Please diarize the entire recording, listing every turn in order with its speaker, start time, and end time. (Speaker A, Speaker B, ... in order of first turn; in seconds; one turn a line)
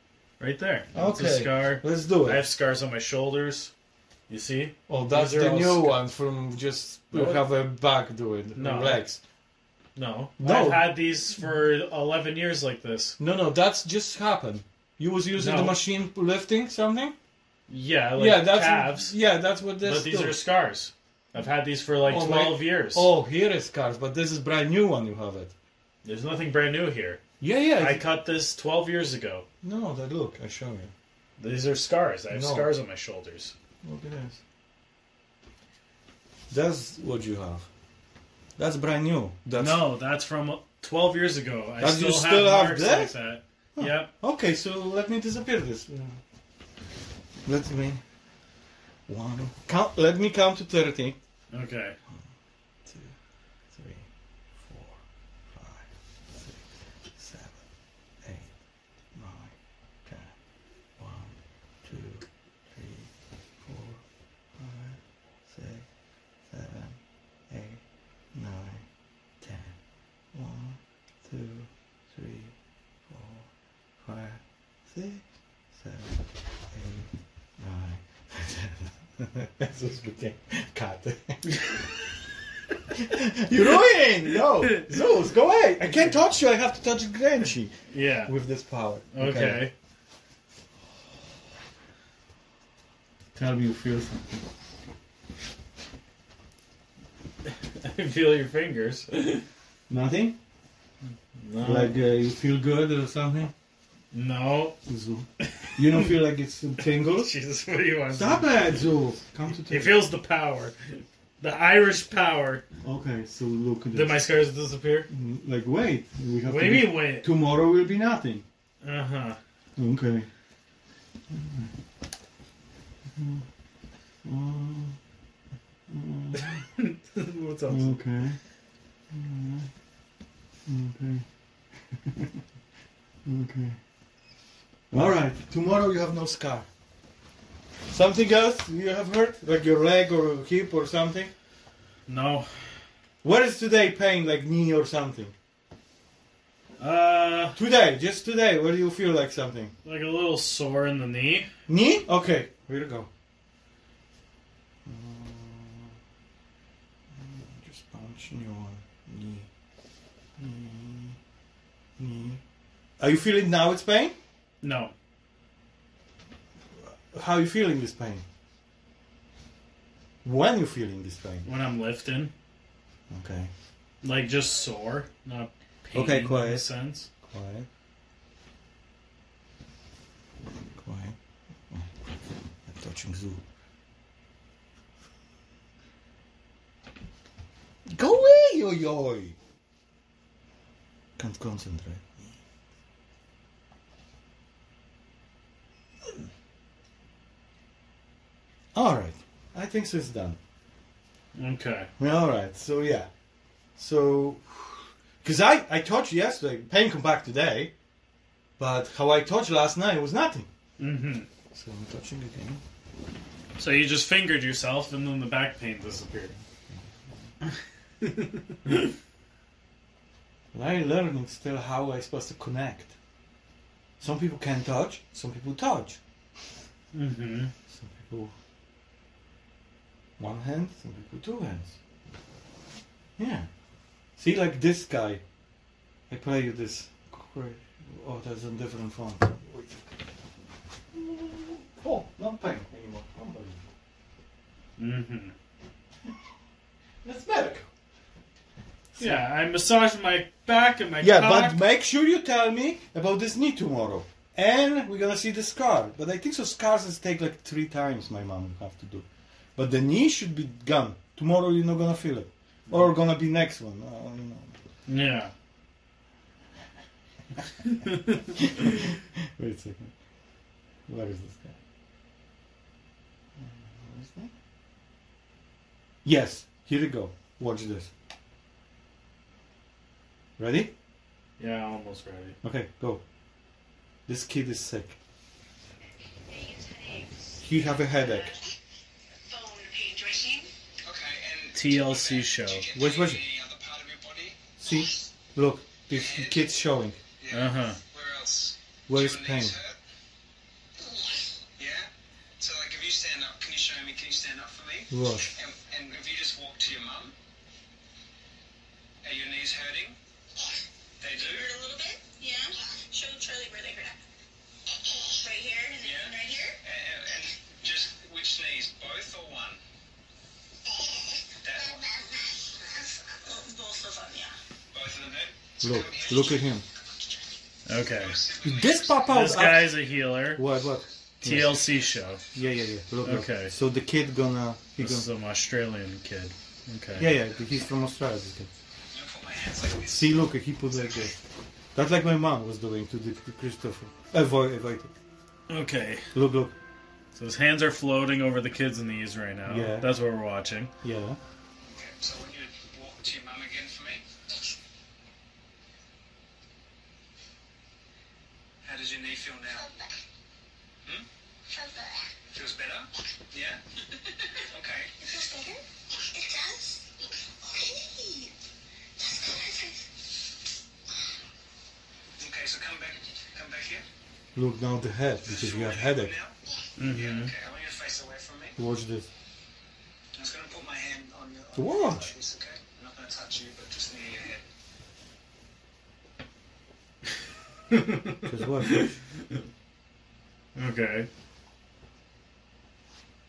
Speaker A: 0.4-3.7
Speaker B: 0.9-2.4
Speaker A: 4.3-6.0
Speaker B: 4.9-9.2
Speaker A: 7.1-7.4
Speaker A: 8.6-9.0
Speaker A: 10.0-13.2
Speaker B: 10.4-10.9
Speaker B: 13.2-17.2
Speaker A: 15.4-15.8
Speaker A: 17.7-19.1
Speaker B: 18.2-20.4
Speaker A: 19.8-23.1
Speaker B: 22.0-25.5
Speaker A: 26.0-27.2
Speaker B: 27.4-28.0
Speaker A: 27.8-29.5
Speaker B: 29.6-30.9
Speaker A: 31.4-33.5
Speaker B: 32.3-32.7
Speaker B: 33.8-34.4
Speaker B: 36.5-37.7
Speaker B: 38.6-39.9
Speaker A: 39.6-44.1
Speaker B: 41.8-43.2
Speaker B: 43.8-46.2
Speaker B: 47.5-48.0
Speaker B: 49.1-51.2
Speaker A: 51.5-52.0
Speaker B: 52.9-53.1
Speaker B: 53.7-57.6
Speaker B: 58.2-58.5
Speaker B: 59.1-60.3
Speaker B: 61.0-63.1
Speaker B: 63.6-64.0
Speaker B: 64.6-65.9
Speaker B: 66.5-67.0
Speaker B: 67.5-67.8
Speaker B: 68.3-68.9
Speaker B: 69.4-69.8
Speaker B: 70.3-72.5
Speaker B: 73.1-73.5
Speaker B: 74.0-81.8
Speaker B: 82.9-89.7
Speaker A: 84.6-85.0
Speaker A: 87.9-88.3
Speaker A: 89.1-89.7
Speaker B: 93.3-94.5
Speaker A: 97.5-99.5
Speaker B: 99.9-100.4
Speaker A: 101.4-102.0
Speaker B: 101.6-103.5
Speaker A: 104.1-104.8
Speaker B: 104.9-107.3
Speaker A: 105.4-106.2
Speaker A: 106.8-108.8
Speaker B: 108.1-110.0
Speaker A: 109.7-112.6
Speaker B: 112.8-114.3
Speaker A: 113.9-115.1
Speaker B: 115.1-118.5
Speaker A: 116.5-117.3
Speaker A: 118.8-119.4
Speaker B: 119.8-120.3
Speaker B: 121.3-121.7
Speaker B: 123.1-123.5
Speaker B: 124.2-125.0
Speaker B: 125.9-126.6
Speaker A: 126.3-128.0
Speaker B: 127.7-128.4
Speaker B: 129.1-129.7
Speaker B: 130.7-131.3
Speaker B: 131.9-132.4
Speaker B: 133.2-133.8
Speaker B: 134.9-136.7
Speaker B: 137.9-141.3
Speaker A: 142.1-142.8
Speaker B: 143.2-145.3
Speaker A: 146.8-147.6
Speaker B: 147.6-149.7
Speaker A: 149.8-151.5
Speaker B: 151.7-153.1
Speaker B: 154.9-155.9
Speaker B: 157.1-159.5
Speaker B: 160.4-161.2
Speaker B: 162.0-162.4
Speaker B: 163.0-164.2
Speaker A: 164.6-164.9
Speaker B: 166.8-168.2
Speaker B: 170.2-171.5
Speaker A: 171.4-172.3
Speaker B: 173.1-173.5
Speaker A: 174.0-177.1
Speaker B: 175.9-176.7
Speaker B: 177.2-177.7
Speaker B: 180.8-181.2
Speaker B: 181.7-183.4
Speaker B: 187.9-189.4
Speaker B: 191.2-192.4
Speaker B: 198.8-200.4
Speaker A: 201.3-201.9
Speaker B: 202.0-203.1
Speaker B: 203.8-207.7
Speaker B: 208.6-210.5
Speaker A: 210.8-211.3
Speaker B: 211.5-212.6
Speaker A: 213.6-216.4
Speaker A: 217.5-218.9
Speaker B: 220.5-223.0
Speaker B: 224.0-226.0
Speaker A: 226.9-227.5
Speaker B: 227.7-228.3
Speaker B: 230.2-231.8
Speaker B: 233.2-233.5
Speaker B: 234.2-235.2
Speaker B: 236.1-240.0
Speaker B: 240.9-243.7
Speaker A: 244.8-245.3
Speaker B: 247.0-247.7
Speaker B: 248.9-249.2
Speaker A: 249.0-251.6
Speaker B: 251.0-264.6
Speaker A: 264.9-265.3
Speaker A: 267.6-268.3
Speaker B: 268.3-269.9
Speaker B: 270.9-271.6
Speaker B: 273.4-274.3
Speaker B: 276.0-277.9
Speaker B: 280.4-280.7
Speaker A: 281.4-282.4
Speaker B: 282.4-283.0
Speaker B: 284.1-285.0
Speaker C: 286.3-288.4
Speaker B: 287.4-288.3
Speaker C: 289.2-290.5
Speaker D: 290.8-294.5
Speaker A: 291.5-292.7
Speaker B: 292.7-293.2
Speaker B: 294.6-297.0
Speaker D: 295.9-296.5
Speaker D: 297.2-299.8
Speaker A: 297.3-297.8
Speaker B: 298.9-299.6
Speaker C: 300.8-301.3
Speaker D: 301.6-307.1
Speaker B: 304.9-305.3
Speaker D: 309.0-310.0
Speaker D: 311.0-311.5
Speaker C: 311.1-314.0
Speaker C: 314.7-316.6
Speaker D: 315.8-319.6
Speaker C: 320.7-324.4
Speaker D: 321.4-321.9
Speaker D: 324.7-327.2
Speaker B: 325.6-326.6
Speaker A: 327.7-328.2
Speaker D: 327.7-329.4
Speaker B: 328.4-331.6
Speaker A: 329.1-330.4
Speaker A: 331.2-332.2
Speaker D: 331.3-332.4
Speaker B: 332.3-335.1
Speaker A: 333.0-333.6
Speaker A: 334.8-337.1
Speaker B: 337.0-338.5
Speaker D: 338.9-341.1
Speaker B: 339.9-341.1
Speaker B: 341.8-344.9
Speaker A: 345.5-346.1
Speaker B: 346.1-346.6
Speaker A: 347.1-350.7
Speaker B: 349.5-349.9
Speaker B: 350.8-351.2
Speaker D: 351.6-354.1
Speaker D: 358.6-359.7
Speaker C: 359.5-360.0
Speaker C: 361.5-362.2
Speaker D: 362.3-363.6
Speaker C: 364.1-364.4
Speaker D: 364.5-364.9
Speaker C: 365.0-368.3
Speaker C: 369.0-369.9
Speaker D: 372.2-373.9
Speaker B: 374.4-376.1
Speaker D: 375.2-378.6
Speaker A: 376.8-377.3
Speaker B: 378.6-379.1
Speaker D: 380.2-384.4
Speaker B: 381.6-382.1
Speaker A: 387.7-388.9
Speaker B: 388.3-389.0
Speaker A: 390.6-391.1